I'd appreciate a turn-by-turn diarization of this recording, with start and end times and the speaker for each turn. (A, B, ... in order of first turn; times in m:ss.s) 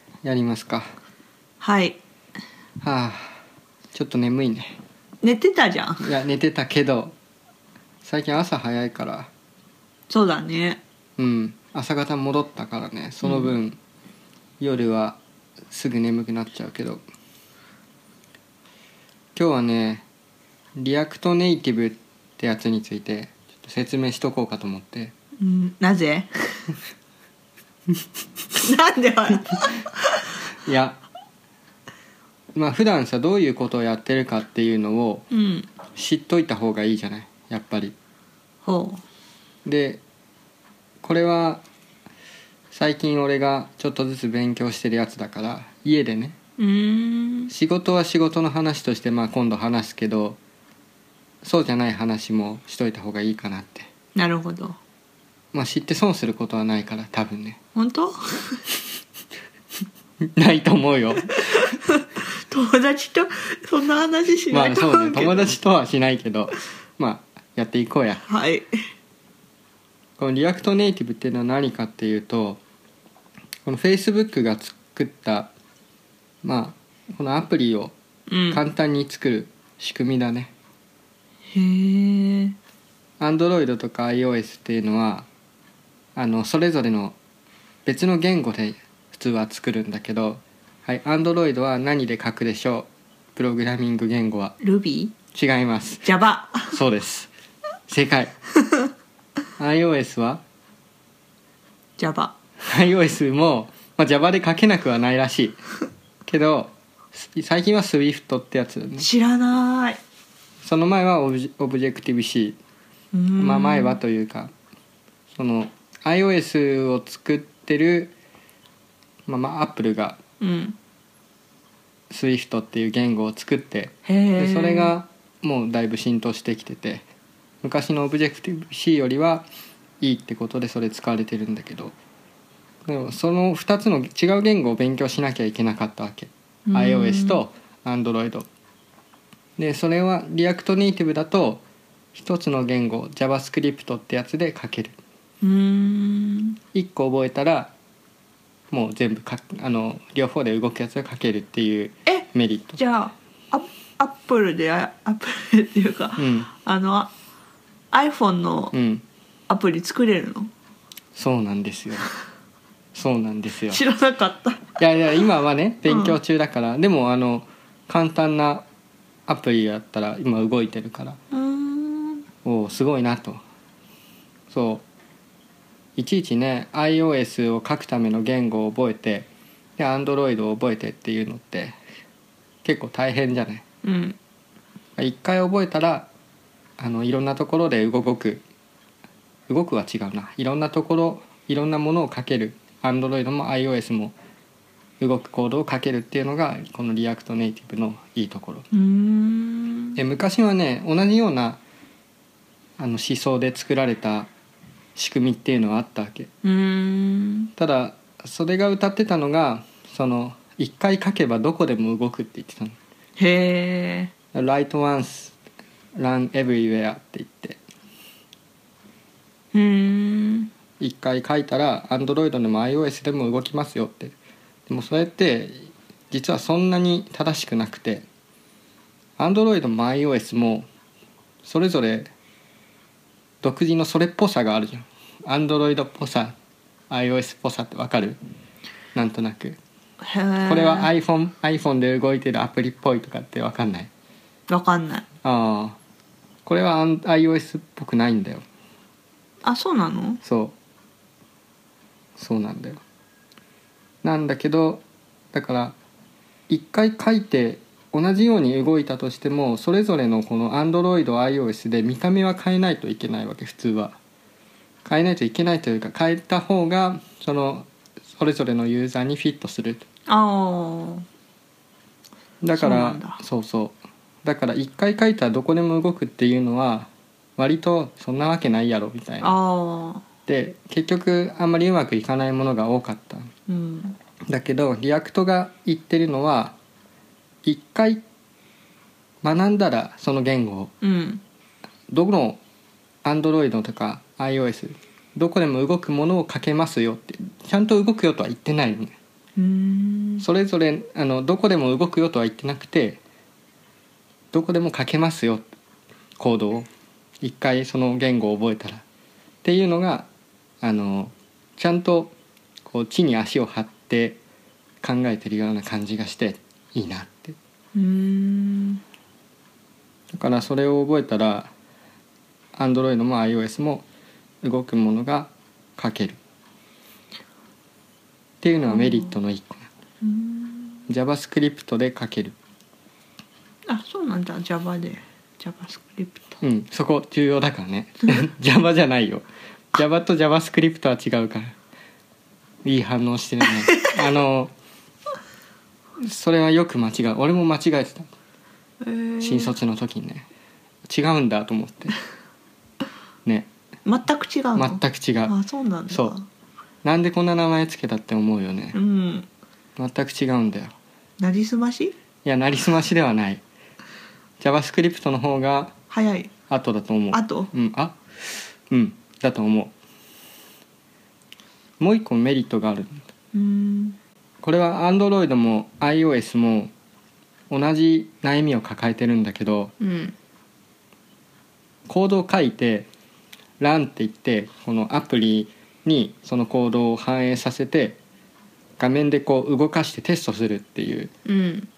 0:00.2-0:00.9 A
0:01.6-0:02.0 B
0:02.8-0:03.4 A
0:03.9-0:04.8 A
0:05.2-0:06.0 B
0:06.0-0:07.1 A
0:08.0-0:09.3 A
0:10.1-0:10.8 B
0:11.2-0:13.8 A
0:13.2-0:13.5 B
0:14.6-0:15.2 A
0:15.7-0:17.0 A
0:19.4-0:20.0 A
0:20.8-0:25.1 A
0:25.4-0:26.7 B
0:28.5-0:30.0 B
0:30.6-0:31.0 A
0:32.5-0:35.2 A
0:35.3-0:35.7 B
0:35.9-0:37.9 A
0:38.6-0:39.0 B
0:39.6-0:40.0 A
0:41.0-0:41.6 A
0:42.7-0:46.4 A
0:46.6-0:47.5 B
0:47.5-0:50.4 A
0:51.4-0:53.9 A
0:54.1-0:54.8 B
0:55.5-0:57.6 A
0:57.7-0:58.6 B
1:00.4-1:01.4 A
1:01.2-1:05.5 B
1:04.5-1:08.2 A
1:08.2-1:08.7 B
1:10.2-1:12.6 A
1:13.6-1:15.5 A
1:16.4-1:17.9 A
1:18.3-1:18.6 B
1:18.5-1:20.5 A
1:21.5-1:22.6 B
1:23.2-1:25.3 A
1:26.1-1:27.2 A
1:27.8-1:34.6 A
1:34.6-1:35.1 B
1:35.3-1:36.1 A
1:36.0-1:36.8 B
1:36.7-1:37.3 A
1:37.9-1:38.3 A
1:39.6-1:40.4 A
1:42.0-1:42.3 B
1:42.6-1:45.6 A
1:46.3-1:49.1 A
1:49.0-1:50.0 B
1:50.6-1:52.6 A
1:53.1-1:54.0 B
1:53.4-1:54.5 A
1:55.3-1:58.1 A
1:59.3-2:00.2 A
2:00.4-2:00.8 B
2:02.1-2:07.0 A
2:04.0-2:04.9 B
2:07.6-2:09.4 A
2:10.0-2:12.0 A
2:12.8-2:18.5 A
2:16.6-2:17.4 B
2:19.6-2:25.0 A
2:25.4-2:26.6 B
2:26.7-2:27.7 A
2:28.7-2:32.8 A
2:32.1-2:37.1 B
2:36.2-2:36.5 A
2:37.9-2:38.7 B
2:38.7-2:39.0 A
2:39.5-2:40.5 B
2:41.1-2:42.1 A
2:42.9-2:43.8 A
2:43.7-2:45.2 B
2:44.8-2:48.6 A
2:45.8-2:46.2 B
2:49.3-2:51.2 A
2:51.3-2:52.2 B
2:52.4-2:53.4 A
2:54.5-2:54.8 A
2:56.0-3:01.8 A
3:02.6-3:03.6 A
3:03.8-3:04.2 B
3:05.0-3:06.1 A
3:06.8-3:08.4 A
3:09.5-3:14.1 A
3:15.0-3:18.6 A
3:18.7-3:20.0 B
3:20.0-3:21.6 A
3:22.8-3:24.3 A
3:25.0-3:26.3 A
3:26.4-3:27.5 B
3:27.6-3:32.8 A
3:33.2-3:34.1 B
3:34.3-3:35.4 A
3:36.0-3:37.6 A
3:39.5-3:40.5 B
3:40.8-3:44.1 A
3:44.7-3:48.0 A
3:49.2-3:50.6 A
3:51.4-3:52.1 A
3:53.4-3:56.3 A
3:56.9-3:58.2 A
3:58.9-3:59.6 A
4:00.0-4:00.9 B
4:00.4-4:03.9 A
4:04.5-4:05.0 B
4:05.2-4:05.8 A
4:06.4-4:08.4 A
4:09.4-4:10.2 B
4:10.2-4:10.5 A
4:12.2-4:12.8 A
4:14.0-4:15.8 A
4:16.5-4:24.0 A
4:24.8-4:29.8 A
4:30.1-4:31.0 B
4:32.4-4:39.4 A
4:32.5-4:33.2 B
4:39.2-4:40.0 B
4:40.2-4:43.3 A
4:43.5-4:44.0 B
4:44.3-4:46.6 A
4:47.4-4:48.0 A
4:49.2-4:50.7 A
4:50.8-4:51.2 B
4:51.9-4:52.4 A
4:53.0-4:58.9 A
4:59.4-5:00.2 B
5:00.2-5:03.0 A
5:04.3-5:05.4 A
5:06.2-5:06.7 A
5:07.2-5:08.8 A
5:09.4-5:10.1 A
5:10.6-5:12.1 A
5:12.6-5:14.2 A
5:14.8-5:17.4 A
5:17.7-5:18.8 B
5:20.1-5:21.5 A
5:22.6-5:23.8 A
5:24.4-5:26.2 A
5:28.4-5:29.7 A
5:28.7-5:29.2 B
5:30.0-5:30.8 B
5:30.9-5:32.4 A
5:33.7-5:36.4 B
5:36.4-5:41.5 A
5:42.6-5:44.5 A
5:46.0-5:48.1 A
5:48.8-5:49.5 B
5:49.2-5:50.3 A
5:50.9-5:52.0 A
5:53.8-5:56.2 B
5:54.5-5:55.3 A
5:55.9-5:56.1 A
5:56.8-5:58.8 A
5:58.7-5:59.3 B
5:59.8-6:00.7 A
6:01.2-6:01.9 B
6:02.2-6:03.4 A
6:04.4-6:05.7 A
6:05.9-6:06.3 B
6:06.5-6:09.7 A
6:07.1-6:07.5 B
6:11.8-6:13.1 A
6:13.3-6:14.0 B
6:14.4-6:16.7 A
6:17.5-6:19.7 A
6:19.8-6:20.1 B
6:21.9-6:22.9 A
6:23.6-6:28.0 A
6:28.8-6:31.1 A
6:31.2-6:31.7 B